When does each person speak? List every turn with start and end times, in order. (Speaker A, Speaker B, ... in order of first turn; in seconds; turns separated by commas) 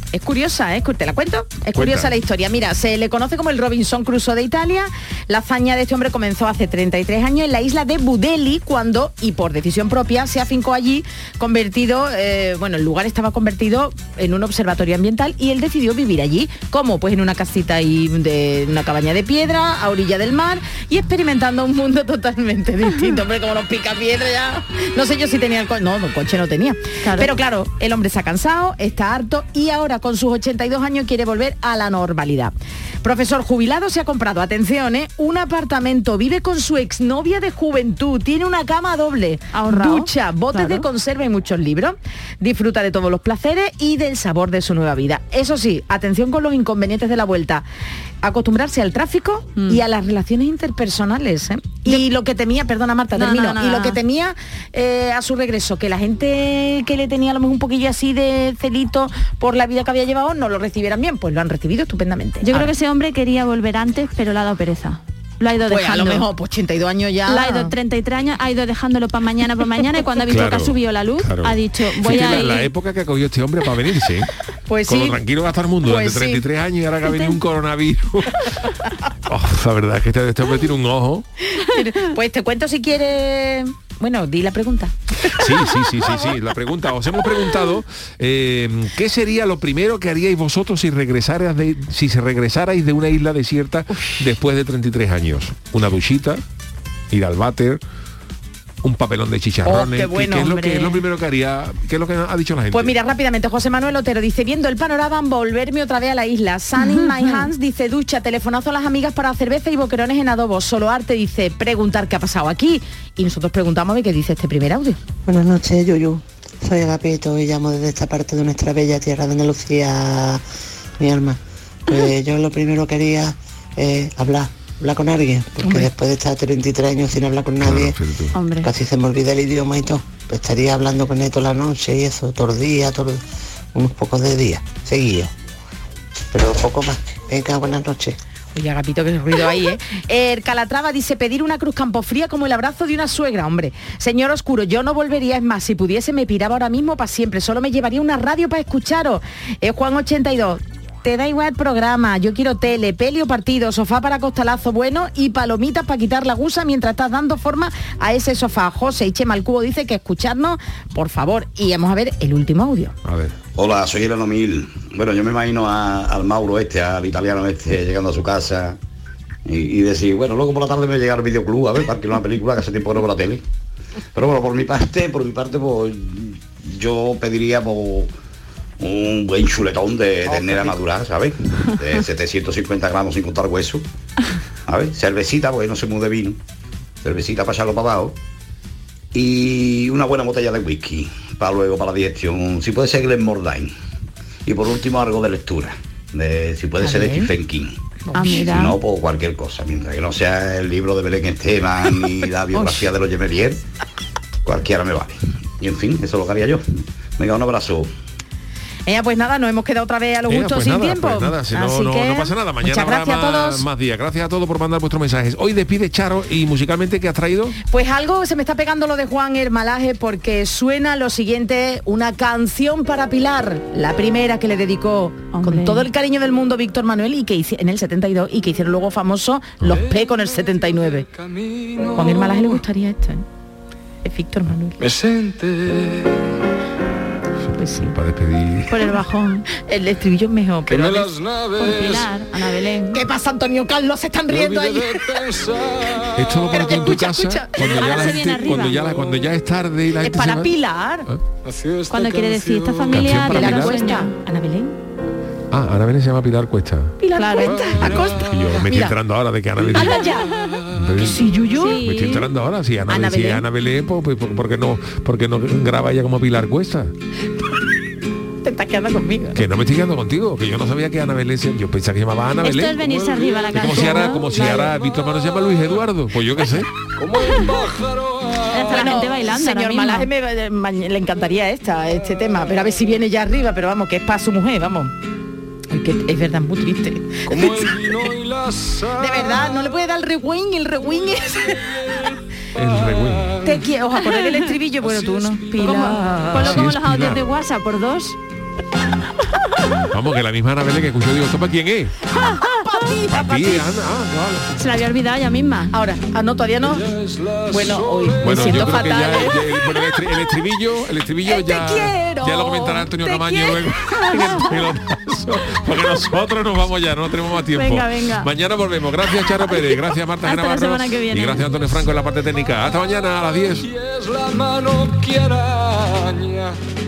Speaker A: 0.1-47.7, Speaker B: 1.7-2.1, Speaker C: 27.0-27.3, Speaker C: 39.5-40.9, Speaker A: 48.2-62.7, Speaker C: 49.6-49.8, Speaker C: 53.1-54.0, Speaker C: 62.4-66.3, Speaker A: 65.7-67.7, Speaker C: 67.3-72.7, Speaker B: 70.3-74.3, Speaker A: 74.7-75.2, Speaker B: 74.8-78.7, Speaker A: 75.8-76.4, Speaker C: 77.1-77.4, Speaker B: 79.3-81.3, Speaker A: 81.4-86.3, Speaker B: 85.3-96.4, Speaker B: 97.1-97.8, Speaker B: 98.8-103.0, Speaker A: 99.6-101.0, Speaker A: 102.7-115.0, Speaker D: 115.3-120.4, Speaker D: 121.0-128.0, Speaker B: 127.6-128.4, Speaker C: 128.3-128.7, Speaker D: 128.6-133.2, Speaker D: 133.7-135.3, Speaker D: 136.3-138.2, Speaker A: 138.6-162.9, Speaker B: 163.1-163.4, Speaker E: 163.6-168.8, Speaker E: 169.5-173.4, Speaker E: 174.2-178.1, Speaker E: 178.8-183.8, Speaker E: 184.7-186.4, Speaker E: 187.0-188.2, Speaker E: 189.1-193.7, Speaker E: 194.5-197.8, Speaker A: 196.8-197.3, Speaker A: 198.1-198.6, Speaker C: 198.1-198.8, Speaker E: 198.3-203.6, Speaker A: 202.5-202.9, Speaker E: 204.5-206.6, Speaker E: 207.2-207.9, Speaker A: 208.9-213.7, Speaker B: 210.3-217.6, Speaker A: 217.7-231.1, Speaker C: 225.3-225.9, Speaker F: 229.7-232.6, Speaker A: 231.9-233.2, Speaker A: 234.0-234.8, Speaker F: 234.8-236.3, Speaker B: 237.4-238.9, Speaker A: 237.6-238.0, Speaker C: 238.7-239.5, Speaker A: 239.6-241.1, Speaker F: 240.7-242.2, Speaker C: 241.6-243.0, Speaker A: 242.9-245.3, Speaker F: 244.3-247.0, Speaker B: 246.2-250.5, Speaker A: 246.5-248.2, Speaker C: 247.7-248.8, Speaker F: 248.3-249.4, Speaker A: 250.0-251.1, Speaker F: 251.4-253.2, Speaker C: 251.9-254.1, Speaker B: 252.9-253.8, Speaker A: 253.3-254.8, Speaker B: 255.5-257.0, Speaker A: 257.0-259.0, Speaker C: 257.2-257.7, Speaker F: 257.4-258.3, Speaker B: 257.7-260.1, Speaker F: 259.6-260.8, Speaker A: 259.7-260.3, Speaker B: 260.7-266.9, Speaker A: 261.0-261.8, Speaker C: 261.5-262.3, Speaker A: 262.9-263.5, Speaker A: 268.4-269.4, Speaker B: 269.4-272.9, Speaker C: 272.4-274.3, Speaker F: 272.8-273.7, Speaker B: 273.5-276.7, Speaker A: 273.8-274.7, Speaker F: 274.2-275.8, Speaker F: 276.9-279.1, Speaker C: 278.5-280.1, Speaker A: 278.6-284.9, Speaker A: 285.7-288.1, Speaker F: 287.3-289.8, Speaker A: 289.0-291.7, Speaker F: 291.5-293.8, Speaker B: 292.6-293.4, Speaker A: 293.4-296.6, Speaker C: 294.0-294.4, Speaker F: 294.8-296.3, Speaker C: 295.6-298.2, Speaker B: 296.4-297.3, Speaker B: 299.9-302.0, Speaker A: 302.1-303.7, Speaker C: 302.2-302.6, Speaker B: 303.1-304.5, Speaker C: 304.6-305.7, Speaker A: 305.7-306.9, Speaker F: 306.6-309.3, Speaker A: 307.5-309.7, Speaker B: 308.2-323.7, Speaker A: 311.2-314.3, Speaker C: 317.5-318.3, Speaker C: 319.4-321.6, Speaker F: 323.6-326.6